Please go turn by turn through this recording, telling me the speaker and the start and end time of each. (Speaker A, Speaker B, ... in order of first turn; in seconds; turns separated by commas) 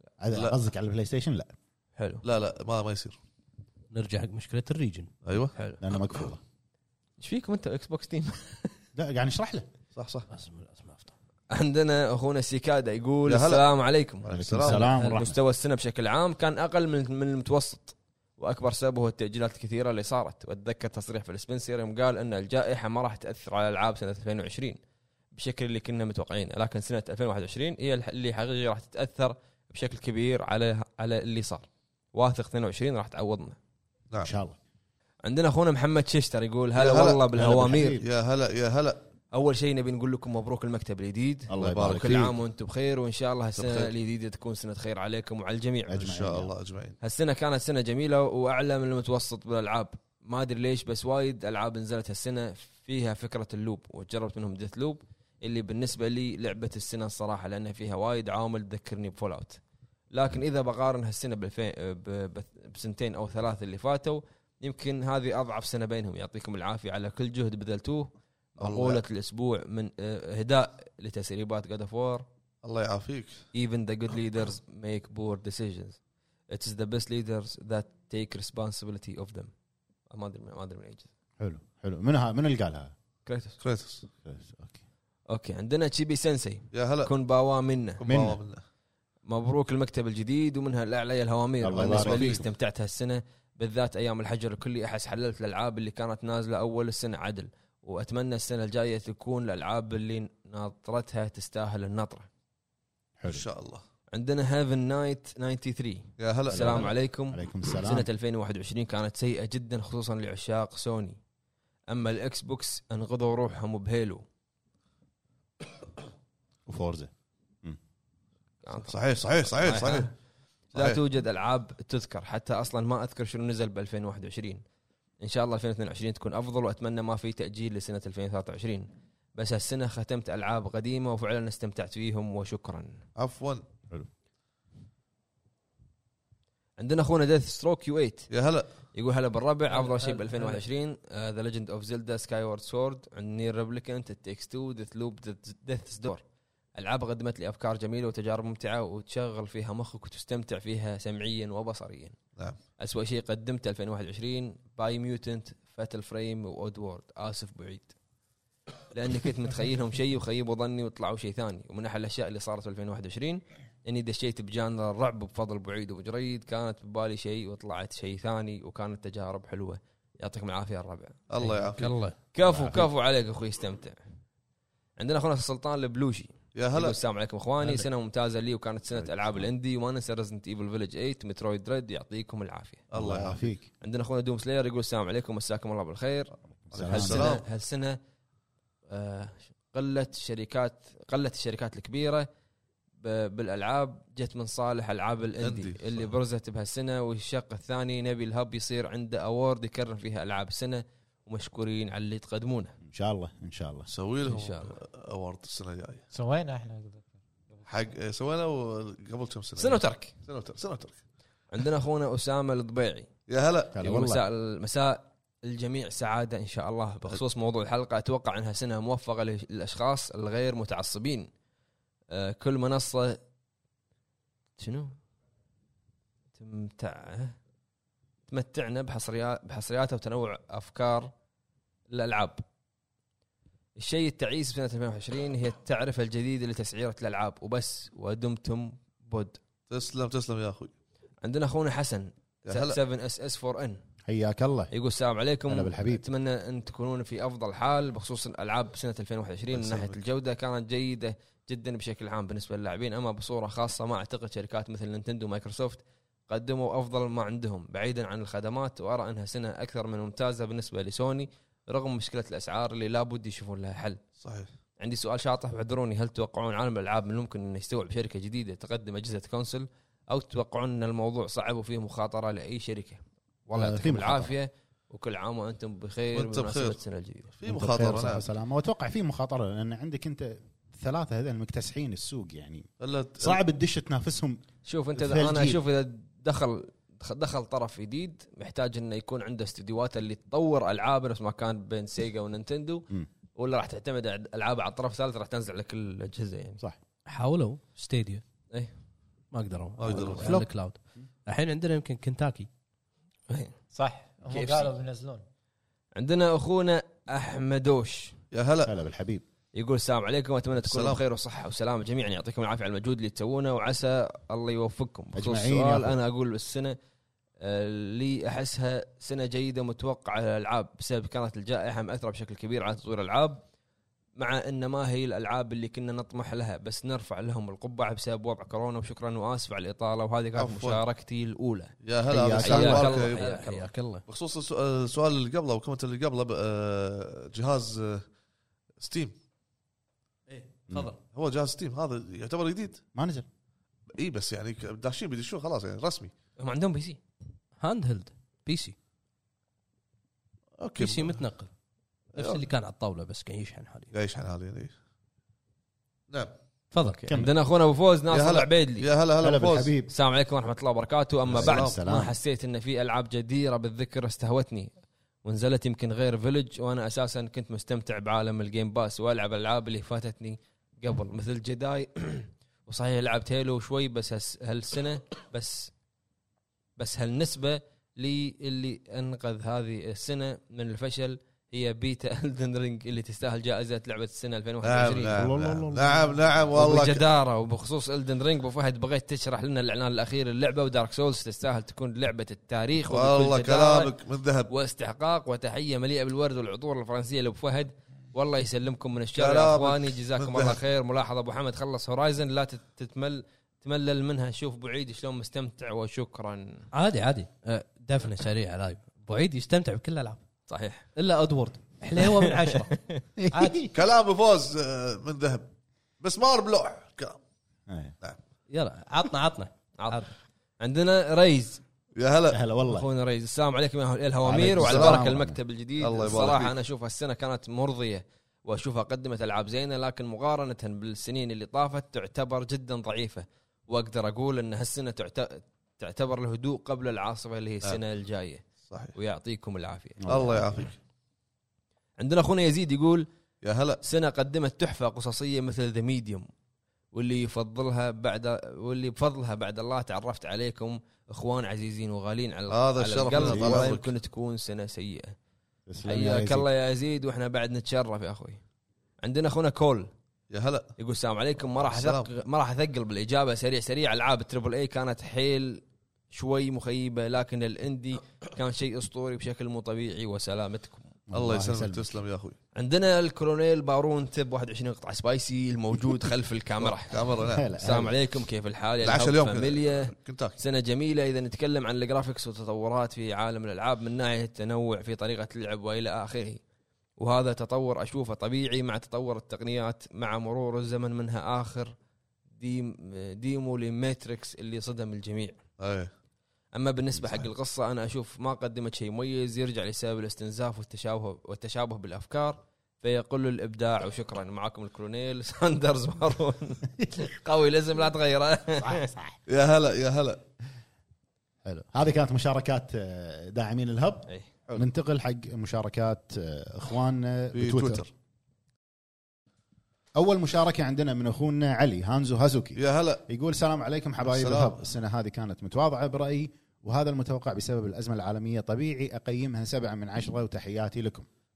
Speaker A: 0.2-1.5, Speaker B: 2.0-2.2, Speaker C: 2.2-3.2, Speaker D: 3.9-5.8, Speaker C: 5.2-5.5, Speaker A: 5.8-6.4, Speaker B: 7.2-8.7, Speaker A: 8.9-9.7, Speaker C: 9.9-10.3, Speaker D: 10.3-11.1, Speaker B: 11.5-24.8, Speaker C: 13.2-13.7, Speaker C: 14.2-14.9, Speaker A: 14.3-15.4, Speaker D: 14.9-15.3, Speaker B: 25.3-33.6, Speaker A: 34.2-34.6, Speaker B: 35.2-38.0, Speaker C: 36.8-37.3, Speaker A: 37.3-38.0, Speaker C: 38.0-39.0, Speaker B: 39.3-46.1, Speaker A: 41.5-42.3, Speaker C: 41.5-42.3, Speaker C: 43.6-43.9, Speaker A: 45.9-46.5, Speaker C: 46.0-47.0, Speaker B: 47.0-59.6, Speaker B: 60.1-72.2, Speaker C: 68.6-69.0, Speaker C: 72.6-73.5, Speaker B: 73.5-76.0, Speaker B: 76.5-79.5, Speaker B: 80.1-81.1, Speaker A: 81.4-82.9, Speaker B: 83.2-83.6, Speaker C: 83.6-84.1, Speaker A: 84.2-84.8, Speaker B: 85.3-88.0, Speaker C: 86.7-87.1, Speaker C: 88.0-88.6, Speaker A: 88.0-88.4, Speaker B: 89.3-102.3, Speaker A: 91.6-92.5, Speaker C: 91.8-92.4, Speaker A: 103.2-103.5, Speaker C: 103.3-103.8, Speaker B: 104.1-111.2, Speaker C: 106.2-107.0, Speaker A: 106.5-108.1, Speaker B: 111.9-114.2, Speaker A: 116.7-117.1, Speaker B: 118.6-118.9, Speaker C: 118.8-120.1, Speaker B: 119.5-120.1, Speaker B: 120.7-124.6, Speaker C: 120.8-121.0, Speaker B: 125.2-133.0, Speaker C: 133.2-133.6, Speaker B: 136.8-138.3, Speaker C: 138.3-138.7, Speaker B: 138.8-146.2, Speaker D: 139.7-140.6, Speaker B: 146.8-152.2, Speaker B: 152.8-157.9, Speaker B: 158.9-171.4, Speaker C: 171.3-172.0, Speaker D: 171.5-172.2, Speaker B: 172.2-174.0, Speaker A: 172.4-172.9, Speaker B: 175.0-182.9, Speaker C: 176.5-177.0, Speaker A: 178.9-179.4, Speaker C: 182.9-183.5, Speaker A: 182.9-183.7, Speaker B: 183.8-186.3, Speaker A: 186.7-187.4, Speaker C: 186.7-187.4, Speaker B: 186.8-188.0, Speaker B: 188.9-192.3, Speaker B: 193.0-202.8, Speaker C: 195.4-196.1, Speaker A: 202.9-203.9, Speaker C: 203.9-206.0, Speaker B: 204.2-204.8, Speaker E: 206.1-207.1, Speaker C: 207.7-211.0, Speaker B: 209.6-210.2, Speaker B: 211.5-213.1, Speaker C: 213.3-213.8, Speaker A: 213.8-214.2, Speaker B: 213.8-221.3, Speaker B: 222.1-223.2, Speaker B: 224.6-224.9, Speaker B: 226.3-227.4, Speaker B: 228.3-231.1, Speaker B: 231.9-232.4, Speaker B: 233.8-239.4, Speaker C: 239.7-240.7, Speaker B: 241.2-243.8, Speaker C: 242.4-242.8, Speaker A: 244.1-244.7, Speaker B: 244.7-264.0, Speaker A: 245.5-246.0, Speaker C: 249.5-250.1, Speaker C: 264.2-264.5, Speaker B: 264.8-277.3, Speaker A: 273.5-274.4, Speaker C: 276.1-276.8, Speaker C: 277.4-278.2, Speaker A: 277.4-282.7, Speaker C: 282.8-283.4, Speaker A: 283.2-284.4, Speaker B: 284.7-296.6, Speaker A: 284.9-285.6, Speaker D: 297.1-298.2, Speaker D: 299.3-302.5, Speaker C: 299.8-300.4, Speaker B: 303.3-303.6, Speaker E: 303.7-305.2, Speaker B: 304.3-304.7, Speaker B: 305.9-308.2, Speaker C: 308.3-308.7, Speaker A: 308.7-309.2, Speaker B: 309.5-316.8, Speaker C: 310.6-311.0, Speaker A: 315.1-316.0, Speaker B: 317.4-323.4, Speaker B: 324.2-331.8, Speaker C: 330.4-330.8, Speaker C: 331.8-333.3, Speaker A: 332.1-332.9, Speaker B: 332.3-333.7, Speaker D: 332.9-334.0, Speaker C: 334.1-338.1, Speaker C: 338.8-339.1, Speaker D: 340.3-341.0, Speaker C: 341.1-342.8, Speaker A: 342.9-343.3, Speaker C: 343.9-346.1, Speaker B: 346.4-347.0, Speaker D: 347.6-348.8, Speaker C: 350.6-351.2, Speaker D: 350.8-351.5, Speaker C: 352.1-352.5, Speaker D: 352.1-353.9, Speaker C: 353.9-354.7, Speaker D: 356.7-357.0, Speaker B: 356.8-358.9, Speaker A: 357.1-357.3, Speaker C: 358.1-359.7, Speaker A: 359.2-359.9, Speaker B: 359.9-364.7, Speaker A: 361.3-362.1, Speaker C: 361.3-361.8, Speaker B: 365.2-375.7, Speaker B: 376.8-385.2, Speaker C: 384.6-387.1, Speaker A: 385.1-386.2, Speaker B: 386.5-393.9, Speaker C: 392.9-394.5, Speaker B: 394.5-406.7, Speaker C: 399.1-400.6, Speaker D: 406.7-410.2, Speaker B: 410.5-410.9, Speaker D: 410.9-412.8, Speaker B: 412.0-412.8, Speaker A: 413.2-413.7, Speaker D: 413.3-413.6, Speaker C: 413.7-415.5, Speaker C: 416.0-417.2, Speaker A: 417.7-417.9, Speaker D: 418.5-420.1, Speaker B: 419.8-420.1, Speaker B: 420.6-421.6, Speaker C: 422.0-422.4, Speaker A: 422.3-422.9, Speaker B: 422.6-440.0, Speaker A: 424.2-425.4, Speaker C: 424.5-425.1, Speaker C: 425.8-426.5, Speaker C: 438.6-438.9, Speaker A: 440.0-440.7, Speaker C: 440.1-440.8, Speaker B: 442.0-443.1, Speaker C: 443.4-443.8, Speaker B: 443.8-446.3, Speaker B: 446.9-455.1, Speaker C: 452.5-453.9, Speaker A: 453.2-453.8, Speaker A: 455.7-456.5, Speaker B: 455.9-458.4, Speaker B: 459.0-459.9, Speaker C: 460.3-460.7, Speaker B: 460.8-470.9, Speaker C: 461.6-462.1, Speaker A: 471.1-471.9, Speaker C: 471.1-472.4, Speaker B: 472.6-486.4, Speaker C: 476.6-477.5, Speaker A: 477.3-478.0, Speaker C: 478.8-480.4, Speaker B: 487.0-491.7, Speaker B: 492.4-495.4, Speaker C: 495.6-495.9, Speaker B: 496.5-508.9, Speaker A: 497.0-497.3, Speaker A: 508.6-509.2, Speaker C: 509.3-510.2, Speaker A: 511.4-517.8, Speaker C: 517.3-517.9, Speaker A: 520.0-531.1, Speaker C: 522.6-523.0, Speaker C: 524.0-524.5